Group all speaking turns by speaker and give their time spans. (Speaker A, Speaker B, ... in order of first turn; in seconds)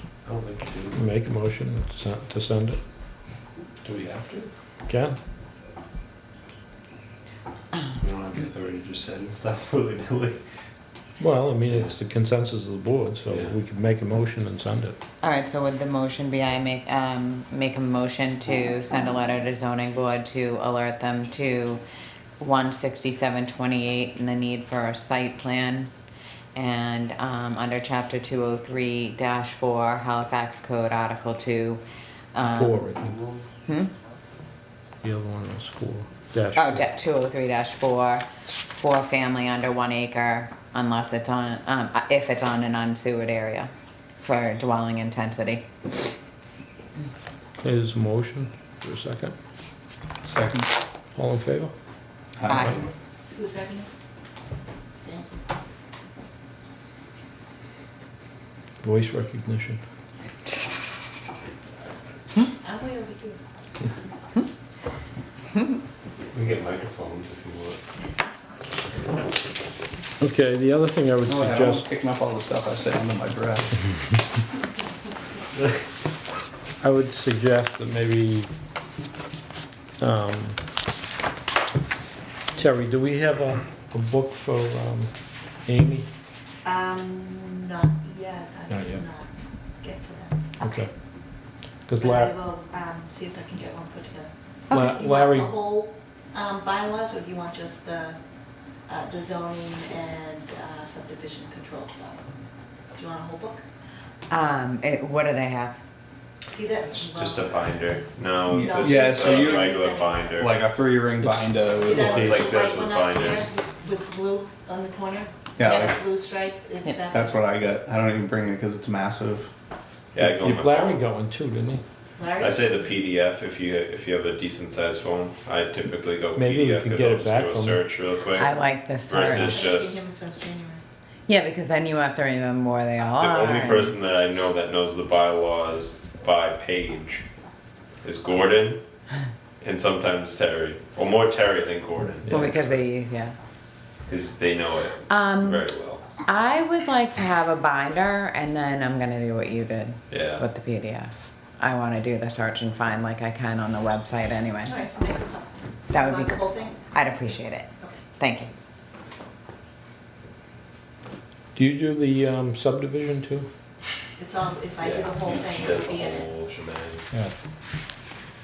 Speaker A: 0.2-1.0, 3.8-4.5, 8.0-10.4, 13.3-13.6, 66.3-67.8, 106.9-110.5, 112.1-113.5, 120.1-121.0, 122.4-128.5, 129.1-130.1, 133.2-137.3, 138.0-138.8, 139.6-142.8, 144.1-146.0, 150.1-150.4, 164.8-167.1
Speaker B: 0.9-2.8, 4.9-5.2, 11.2-15.0, 32.4-33.2, 35.0-36.8, 47.6-49.4, 51.1-51.7, 58.8-59.8, 70.2-71.9, 76.8-78.5, 80.0-80.6, 82.5-85.1, 85.7-86.1, 88.7-89.0, 90.6-90.9, 91.9-92.4, 94.7-95.6, 111.2-112.5, 120.2-121.8, 126.3-127.9, 142.2-142.5, 161.6-163.5
Speaker C: 15.2-21.8, 22.4-25.9, 26.6-31.8, 32.3-32.8, 36.5-45.7, 52.5-52.8, 94.7-95.0, 104.3-105.8, 128.4-129.6, 131.3-133.9, 142.3-143.3, 145.1-145.7, 146.2-154.8, 155.9-158.5
Speaker D: 50.2-50.7, 52.4-52.8, 71.3-73.8, 108.5-109.7, 110.4-112.5, 115.6-116.0, 117.1-119.5
Speaker E: 53.3-53.9, 55.0-55.3, 62.6-63.4, 86.7-89.3, 89.8-90.5, 92.0-94.3, 95.0-98.2, 98.9-102.3, 103.0-103.6, 106.5-107.7, 108.6-110.4, 111.9-115.3, 115.9-117.4, 122.2-122.8, 129.3-130.8, 154.7-156.8, 164.2-166.3